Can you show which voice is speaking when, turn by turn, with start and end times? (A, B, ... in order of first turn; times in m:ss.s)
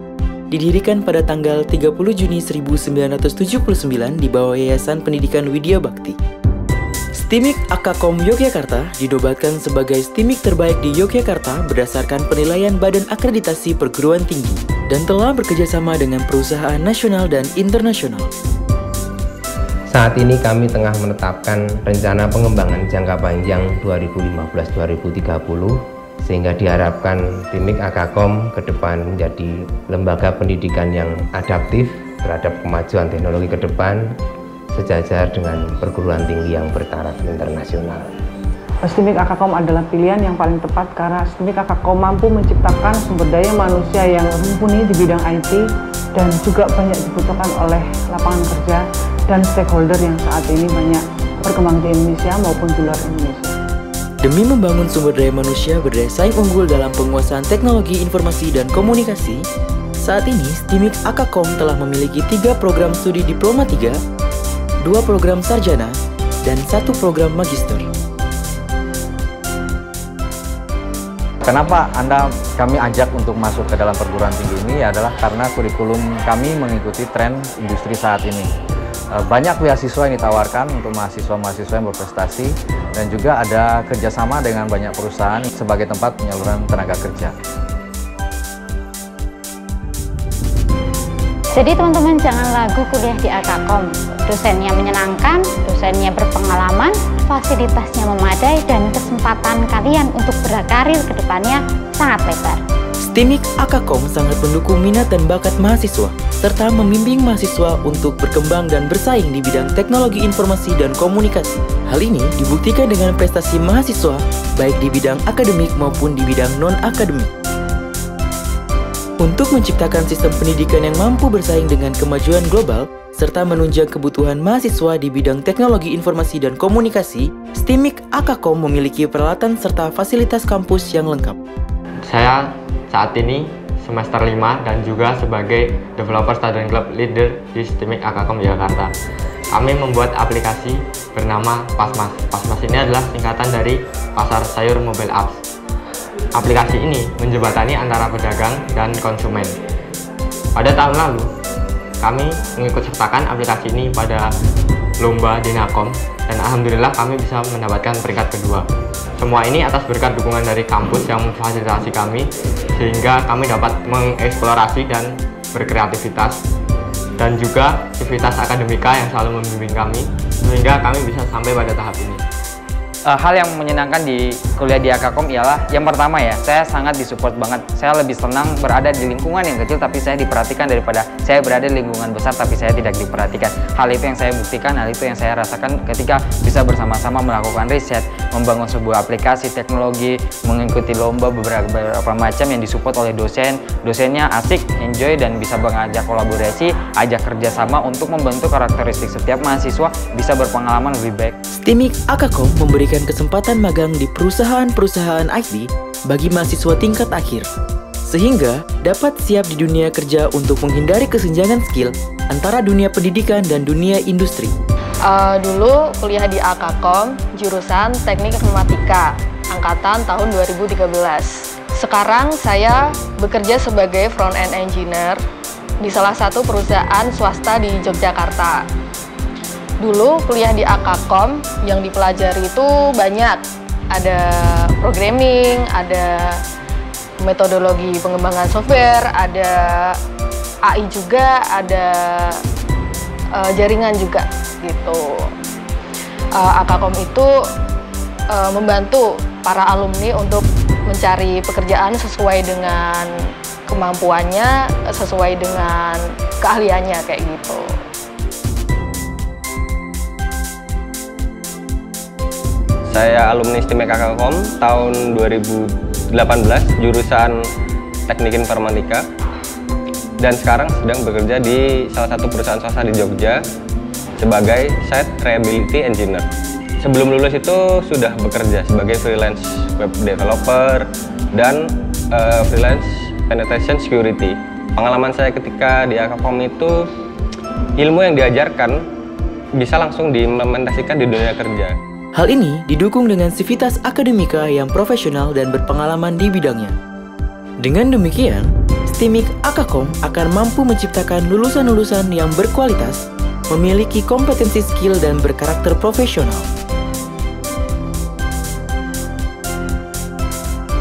0:00.5-0:06.2 A
0:07.2-0:18.3 A
0:19.9-0:34.1 B
0:34.7-0:38.1 B
0:38.8-0:53.5 C
0:54.2-0:59.5 A
1:00.0-1:04.0 A
1:04.8-1:07.9 A
1:11.4-1:18.5 D
1:19.2-1:27.3 D
1:31.5-1:42.6 E
1:43.0-1:57.3 A
1:59.2-2:11.4 A
2:12.1-2:18.9 F
2:19.5-2:25.4 F
2:26.4-2:29.6 F
2:30.6-2:31.3 F
2:32.0-2:34.3 F
2:35.0-2:38.7 F
2:39.2-2:46.4 F
2:47.2-2:52.2 F
2:53.1-3:21.4 G
3:21.6-3:27.5 A
3:28.1-3:34.5 A
3:35.1-3:45.2 H
3:45.8-3:48.6 H
3:49.8-3:56.4 H
3:57.2-4:00.0 H
4:00.7-4:02.4 H
4:03.4-4:05.3 H
4:06.3-4:07.3 H
4:08.3-4:13.1 H
4:13.7-4:17.7 H
4:22.9-4:27.4 I
4:28.1-4:29.0 I
4:30.2-4:33.4 I
4:34.2-4:36.2 I
4:36.8-4:46.9 I
4:47.8-4:48.8 I
4:49.6-4:51.8 I
4:52.2-4:56.8 A
4:57.6-5:06.5 A